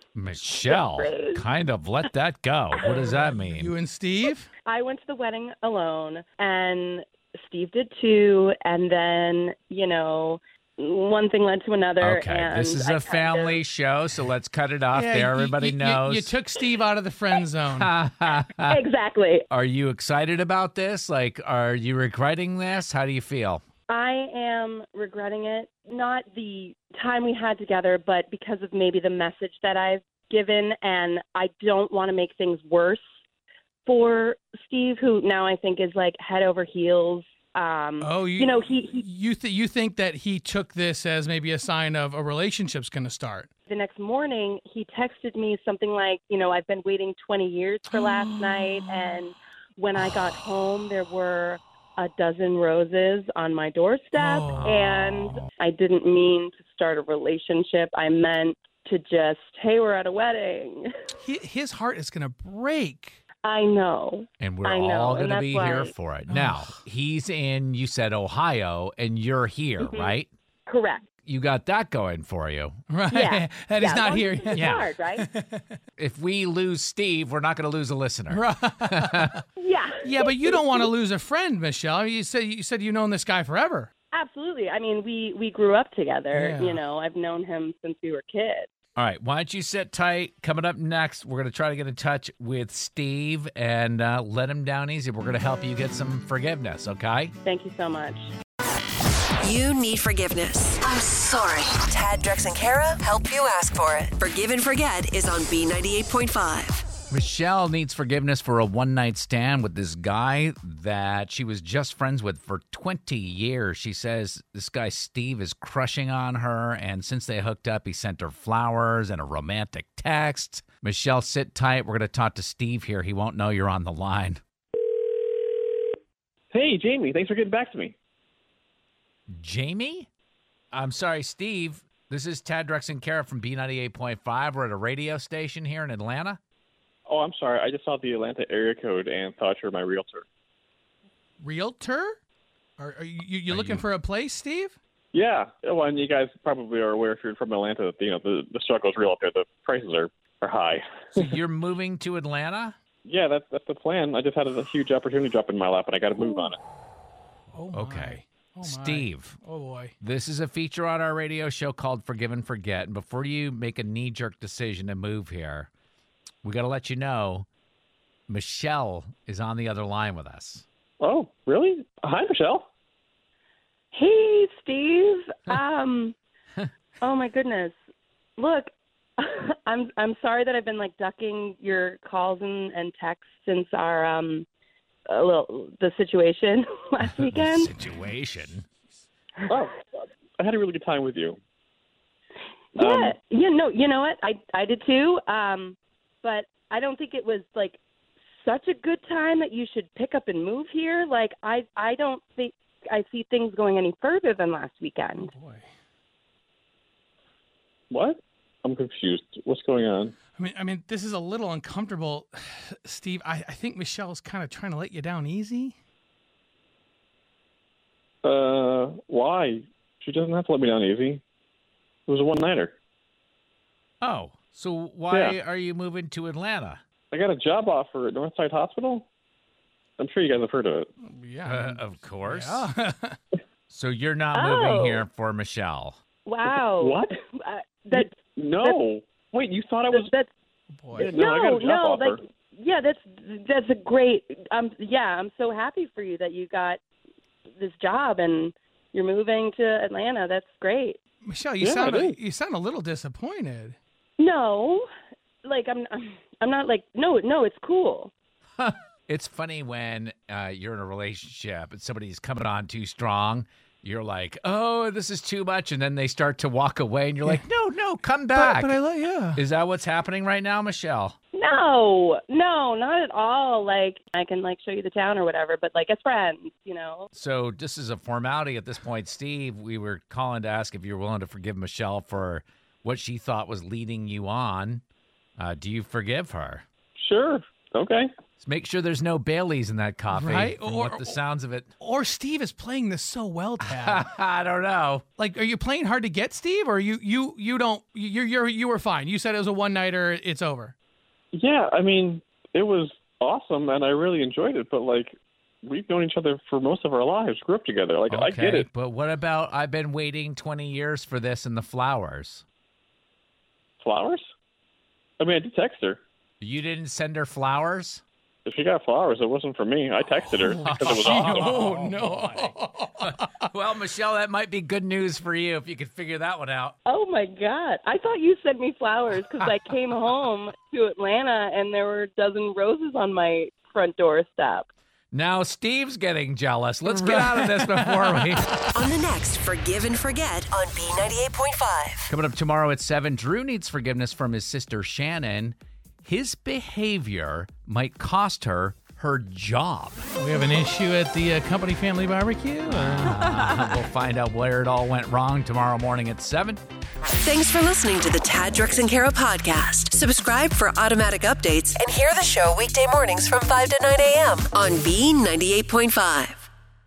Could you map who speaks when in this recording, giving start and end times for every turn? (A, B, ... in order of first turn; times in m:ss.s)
0:00.2-0:03.7 A
0:00.6-0:01.4 B
0:03.2-0:04.5 C
0:04.6-0:13.6 B
0:12.0-0:16.4 A
0:14.9-0:17.9 C
0:17.7-0:18.8 A
0:18.6-0:19.4 B
0:19.5-0:23.6 A
0:23.9-0:33.0 B
0:33.8-0:39.0 B
0:38.0-0:43.5 C
0:43.7-1:00.9 B
0:47.9-0:49.0 C
0:54.1-0:55.0 C
0:54.5-0:54.9 A
1:01.2-1:03.2 C
1:03.4-1:05.9 B
1:04.4-1:10.3 A
1:06.3-1:06.7 C
1:09.8-1:10.1 B
1:10.7-1:11.0 B
1:11.2-1:12.8 A
1:12.9-1:15.8 C
1:13.1-1:15.2 B
1:14.5-1:14.9 A
1:16.0-1:19.4 A
1:18.3-1:19.4 C
1:19.6-1:20.9 B
1:20.0-1:23.9 C
1:24.1-1:28.7 B
1:26.3-1:26.8 C
1:29.0-1:37.3 A
1:37.4-1:38.3 B
1:39.4-1:46.8 D
1:47.1-2:04.4 A
2:06.5-2:07.9 E
2:09.3-2:10.1 A
2:10.7-2:16.4 A
2:17.1-2:20.2 E
2:21.4-2:22.2 C
2:22.8-2:24.8 C
2:23.5-2:23.8 A
2:25.1-2:31.2 E
2:31.1-2:32.8 A
2:33.0-2:36.6 E
2:37.5-2:39.9 C
2:37.7-2:39.4 A
2:40.0-2:45.7 A
2:46.4-2:47.5 A
2:48.3-2:50.6 A
2:51.0-2:52.7 E
2:53.9-2:56.2 B
2:57.0-2:57.7 B
2:58.4-3:04.4 B
3:05.1-3:07.7 B
3:07.3-3:08.7 A
3:09.5-3:09.8 E
3:10.4-3:11.4 E
3:12.8-3:17.8 B
3:12.8-3:13.1 E
3:18.4-3:25.3 B
3:25.2-3:25.7 C
3:27.9-3:30.1 E
3:30.3-3:35.8 C
3:38.2-3:41.2 E
3:42.1-3:42.8 E
3:44.0-3:46.8 A
3:47.1-3:49.1 E
3:50.0-3:50.9 E
3:51.0-3:53.2 C
3:51.4-3:52.7 A
3:53.7-3:56.0 A
3:54.3-3:55.0 B
3:56.2-3:58.8 B
3:56.8-3:57.2 E
3:57.9-4:00.1 E
3:59.9-4:00.3 B
4:00.7-4:01.1 C
4:00.9-4:02.2 E
4:01.1-4:06.8 B
4:07.6-4:11.0 B
4:11.2-4:13.8 C
4:11.6-4:12.2 E
4:14.2-4:14.9 B
4:15.4-4:18.1 B
4:18.6-4:28.8 A
4:28.3-4:29.4 C
4:29.3-4:31.2 A
4:31.3-4:37.1 B
4:37.1-4:44.8 A
4:45.4-4:46.6 A
4:47.0-4:48.1 E
4:48.4-4:51.7 A
4:50.1-4:51.2 C
4:51.8-4:54.1 C
4:53.6-4:55.0 A
4:55.2-5:00.7 C
5:01.3-5:08.7 E
5:08.1-5:12.4 A
5:13.8-5:14.3 E
5:15.2-5:16.0 E
5:16.4-5:18.0 A
5:18.4-5:21.6 E
5:20.4-5:26.7 A
5:20.6-5:23.4 C
5:26.8-5:34.7 B
5:35.1-5:38.5 A
5:36.9-5:38.4 C
5:38.7-5:42.1 D
5:42.1-5:50.0 A
5:50.2-5:53.7 C
5:52.7-5:56.6 A
5:57.1-6:06.5 D